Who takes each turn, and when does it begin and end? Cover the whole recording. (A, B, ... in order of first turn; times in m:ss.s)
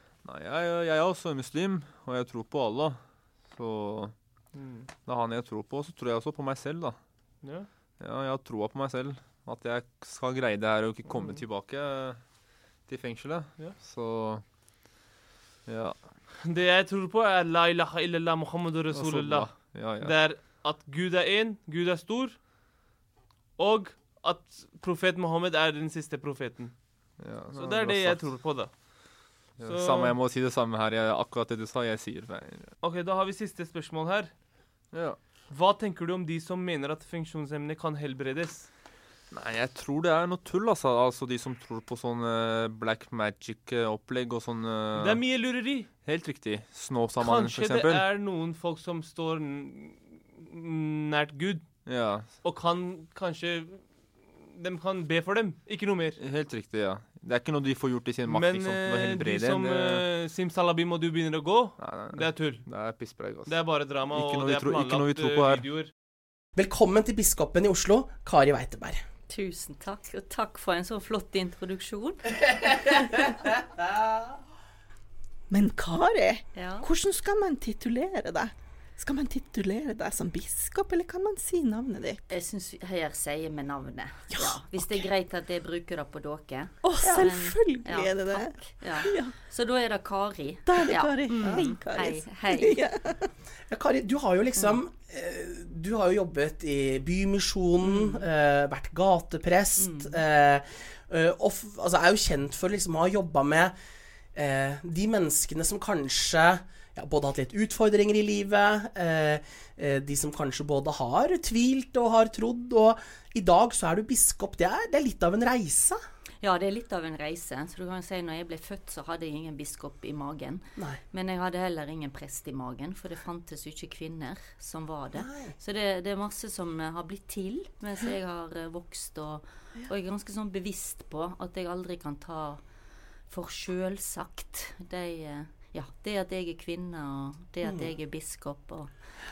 0:00.2-0:14.4 A
0:04.5-0:04.9 B
0:07.4-0:07.7 B
0:11.1-0:11.4 B
0:15.6-0:16.2 A
0:16.4-0:22.4 B
0:18.9-0:20.4 A
0:23.6-0:30.2 B
0:27.2-0:28.8 A
0:29.6-0:32.7 A
0:32.8-0:34.4 B
0:34.9-0:35.2 A
0:35.5-0:38.7 B
0:39.3-0:48.0 A
0:44.9-0:45.9 B
0:47.2-0:56.2 B
0:51.8-0:52.4 A
0:56.2-1:00.0 A
0:58.2-1:05.9 B
1:01.8-1:05.6 A
1:06.6-1:09.0 C
1:09.3-1:13.3 D
1:15.5-1:22.2 E
1:16.5-1:16.8 D
1:22.3-1:32.8 D
1:24.3-1:25.1 E
1:26.8-1:29.4 E
1:27.0-1:27.3 C
1:30.6-1:33.3 E
1:33.7-1:43.7 C
1:37.8-1:38.2 D
1:39.8-1:40.2 D
1:44.3-1:56.0 C
1:56.4-2:12.6 D
2:05.2-2:05.5 C
2:13.3-2:18.9 D